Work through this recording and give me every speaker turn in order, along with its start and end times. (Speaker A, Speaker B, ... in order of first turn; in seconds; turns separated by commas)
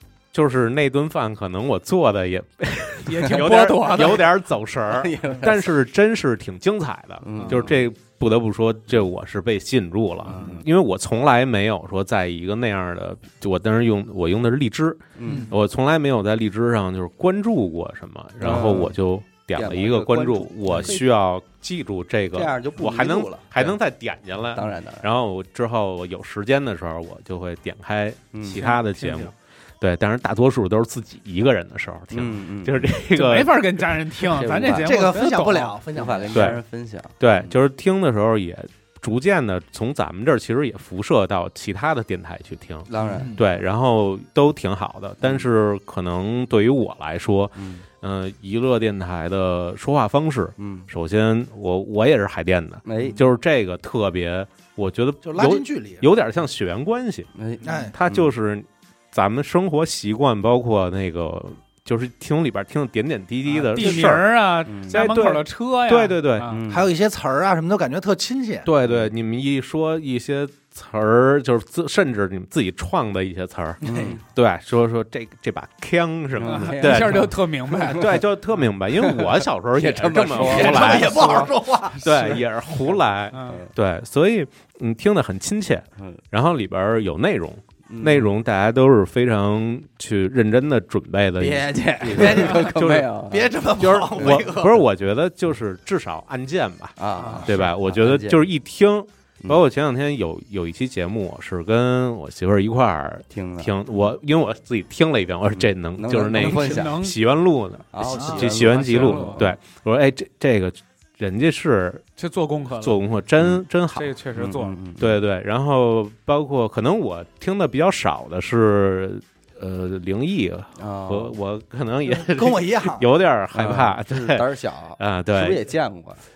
Speaker A: 0.3-33.7, Speaker B: 3.1-4.3, Speaker C: 4.9-5.8, Speaker C: 7.2-7.8, Speaker C: 10.3-10.7, Speaker C: 15.2-15.5, Speaker C: 18.4-19.0, Speaker C: 19.5-21.1, Speaker C: 22.3-23.8, Speaker C: 24.5-25.1, Speaker C: 28.3-28.6, Speaker B: 28.5-29.3, Speaker C: 32.1-32.9, Speaker B: 33.1-35.8, Speaker C: 34.3-35.0, Speaker D: 34.8-36.5, Speaker C: 35.9-37.6, Speaker A: 36.3-36.6, Speaker A: 37.2-57.3, Speaker C: 42.9-43.3, Speaker D: 43.1-43.4, Speaker C: 45.2-45.5, Speaker C: 47.6-47.9, Speaker C: 50.6-50.9, Speaker C: 52.9-53.2, Speaker D: 55.2-56.0, Speaker C: 57.3-58.3, Speaker D: 57.6-58.0, Speaker A: 57.9-66.5, Speaker B: 63.5-66.6, Speaker C: 63.8-65.0, Speaker C: 66.4-66.9, Speaker D: 66.7-68.7, Speaker A: 68.7-81.5, Speaker C: 68.8-69.1, Speaker D: 73.8-74.2, Speaker C: 73.8-74.2, Speaker C: 76.3-77.3, Speaker B: 76.4-78.2, Speaker C: 77.8-78.1, Speaker C: 79.0-81.5, Speaker D: 80.3-82.3, Speaker B: 80.8-82.5, Speaker A: 82.0-93.1, Speaker B: 83.3-83.6, Speaker C: 87.9-88.3, Speaker C: 91.4-93.5, Speaker D: 92.1-92.7, Speaker D: 93.3-94.8, Speaker A: 93.7-112.0, Speaker C: 97.0-98.5, Speaker B: 97.2-97.6, Speaker C: 103.3-103.7, Speaker C: 105.5-107.0, Speaker B: 106.3-107.2, Speaker C: 107.9-109.6, Speaker B: 108.0-109.5, Speaker B: 112.2-113.0, Speaker A: 112.8-114.1, Speaker B: 113.9-114.8, Speaker C: 114.3-115.2, Speaker A: 115.0-124.5, Speaker C: 120.8-121.3, Speaker D: 122.1-123.0, Speaker C: 123.5-126.2, Speaker A: 125.0-125.7